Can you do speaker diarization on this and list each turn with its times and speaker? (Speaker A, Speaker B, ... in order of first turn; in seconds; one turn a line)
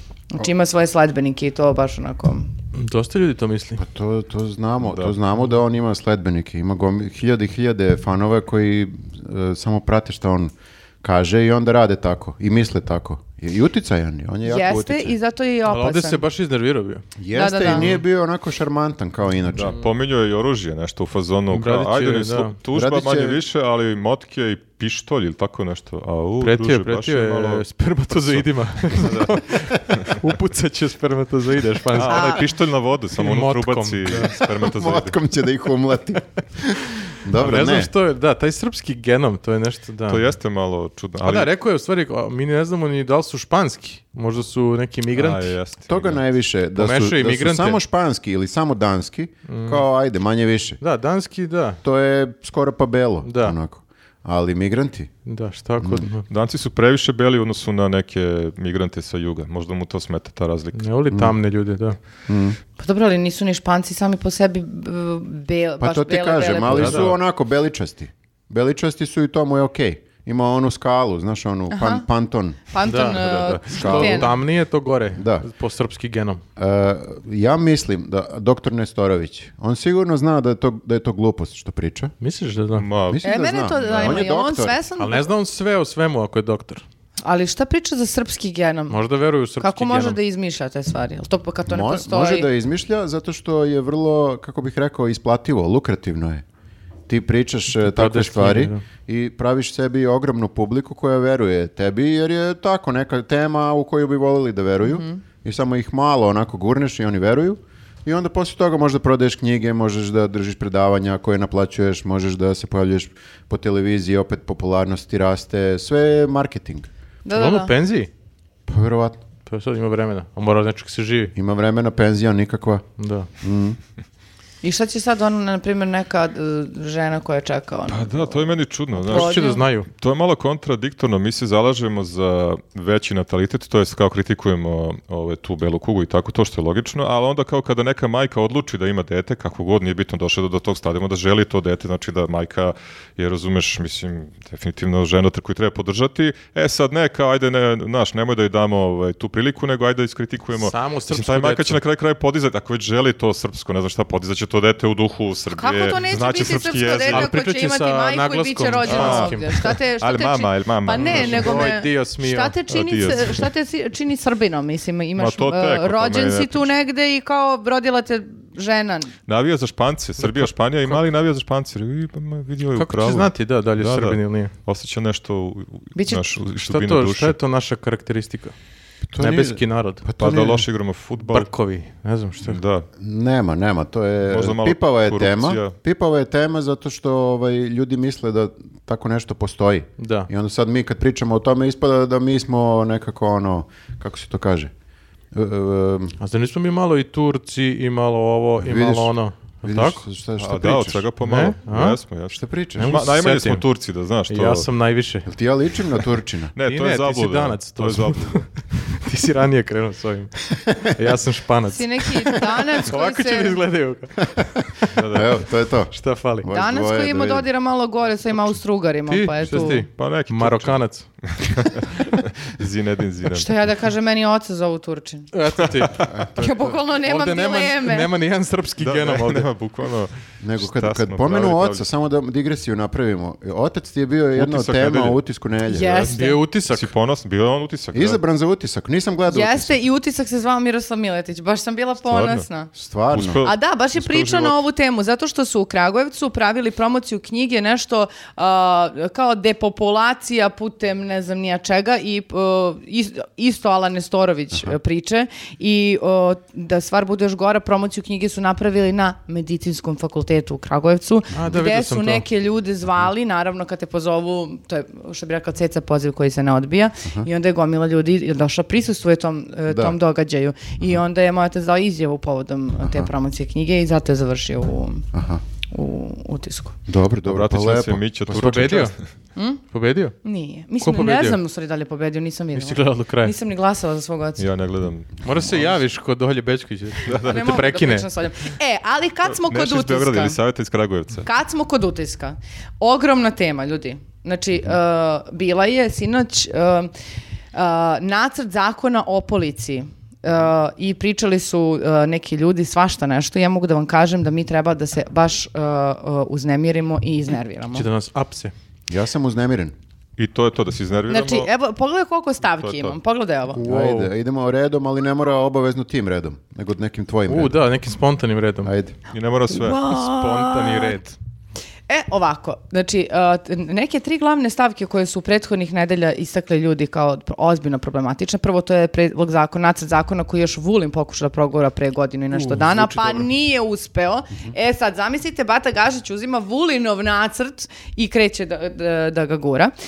Speaker A: 0.3-2.5
Speaker B: 2.7-3.8
Speaker C: 3.8-15.2
Speaker D: 4.8-5.1
Speaker A: 14.4-16.2
Speaker B: 15.6-17.1
Speaker C: 17.2-19.8
Speaker A: 17.3-17.9
Speaker B: 17.7-17.9
Speaker D: 19.5-30.2
Speaker B: 21.5-22.6
Speaker C: 22.7-23.4
Speaker B: 26.4-32.5
Speaker D: 31.9-35.1
Speaker A: 32.1-32.5
Speaker B: 33.1-34.4
Speaker C: 34.1-37.9
Speaker B: 37.3-40.3
Speaker D: 40.1-41.5
Speaker B: 41.2-45.6
Speaker D: 45.1-46.2
Speaker C: 45.9-50.8
Speaker B: 46.8-47.8
Speaker B: 49.5-49.8
Speaker B: 50.8-51.8
Speaker C: 51.8-55.1
Speaker B: 53.2-53.5
Speaker B: 55.2-56.3
Speaker C: 55.8-56.1
Speaker D: 56.3-60.9
Speaker B: 60.7-62.0
Speaker C: 61.1-61.4
Speaker C: 62.3-62.6
Speaker A: 62.8-67.1
Speaker C: 65.8-72.6
Speaker B: 66.7-67.1
Speaker A: 71.7-72.0
Speaker A: 72.7-74.3
Speaker B: 72.8-76.4
Speaker C: 73.7-74.4
Speaker C: 75.1-75.5
Speaker C: 76.6-82.1
Speaker B: 82.2-82.9
Speaker D: 82.8-84.2
Speaker C: 83.1-84.8
Speaker A: 83.2-85.3
Speaker B: 85.0-86.8
Speaker A: 87.2-89.0
Speaker B: 88.9-90.2
Speaker A: 89.6-92.5
Speaker C: 91.7-96.4
Speaker C: 97.1-116.9
Speaker B: 97.7-98.8
Speaker A: 104.8-105.2
Speaker A: 117.2-117.7
Speaker B: 117.3-118.1
Speaker C: 118.7-119.2
Speaker B: 119.5-121.3
Speaker C: 121.3-122.8
Speaker B: 123.0-123.3
Speaker C: 123.4-123.8
Speaker A: 124.6-129.6
Speaker D: 127.9-157.3
Speaker B: 129.0-129.9
Speaker B: 150.5-151.8
Speaker A: 155.5-169.1
Speaker B: 157.0-159.8
Speaker D: 158.8-159.3
Speaker D: 160.0-161.7
Speaker B: 160.9-162.5
Speaker D: 162.7-163.5
Speaker D: 165.2-166.7
Speaker D: 169.3-177.3
Speaker B: 170.2-171.0
Speaker B: 172.7-174.5
Speaker A: 175.9-176.3
Speaker B: 176.6-178.5
Speaker C: 179.1-180.7
Speaker B: 179.2-180.0
Speaker D: 180.2-181.5
Speaker B: 181.2-182.6
Speaker D: 182.4-182.9
Speaker C: 183.0-194.7
Speaker D: 184.3-185.7
Speaker B: 190.0-190.3
Speaker C: 195.3-196.2
Speaker B: 196.2-200.0
Speaker C: 198.6-201.0
Speaker D: 200.4-204.7
Speaker B: 201.2-202.0
Speaker C: 202.3-202.9
Speaker B: 202.7-203.6
Speaker B: 204.3-205.3
Speaker C: 205.2-206.5
Speaker D: 206.5-208.4
Speaker B: 206.6-215.2
Speaker A: 211.7-213.6
Speaker D: 214.9-215.4
Speaker C: 215.1-217.5
Speaker B: 215.9-216.5
Speaker A: 216.5-219.8
Speaker B: 219.1-221.1
Speaker D: 219.4-223.5
Speaker A: 223.3-225.3
Speaker B: 225.3-226.1
Speaker D: 225.6-226.2
Speaker C: 226.1-226.7
Speaker A: 226.3-228.1
Speaker B: 226.9-229.5
Speaker D: 228.8-231.8
Speaker C: 230.4-236.1
Speaker D: 234.3-235.2
Speaker A: 235.7-236.4
Speaker B: 236.1-236.9
Speaker D: 236.7-238.2
Speaker C: 237.9-239.7
Speaker A: 239.3-242.7
Speaker D: 242.1-242.4
Speaker C: 242.7-243.4
Speaker D: 243.1-244.6
Speaker A: 243.4-275.1
Speaker B: 261.3-262.2
Speaker C: 269.7-269.9
Speaker C: 272.8-273.1
Speaker C: 275.1-275.4
Speaker A: 275.7-276.8
Speaker C: 276.9-278.9
Speaker D: 277.2-278.9
Speaker B: 278.3-278.9
Speaker A: 279.4-279.6
Speaker B: 279.7-280.1
Speaker A: 280.2-284.4
Speaker B: 280.8-281.4
Speaker B: 282.5-283.3
Speaker D: 284.4-285.6
Speaker B: 285.2-288.1
Speaker A: 287.0-290.4
Speaker D: 287.1-287.7
Speaker D: 289.3-291.3
Speaker A: 291.2-296.9
Speaker A: 297.5-307.9
Speaker B: 307.7-308.5
Speaker C: 308.9-309.7
Speaker D: 310.2-311.5
Speaker A: 311.1-313.6
Speaker D: 312.6-313.0
Speaker B: 313.5-314.1
Speaker C: 313.6-317.6
Speaker B: 317.3-318.7
Speaker C: 318.6-318.9
Speaker D: 319.1-319.9
Speaker A: 319.5-321.0
Speaker B: 319.9-321.1
Speaker A: 321.9-339.7
Speaker B: 332.3-333.3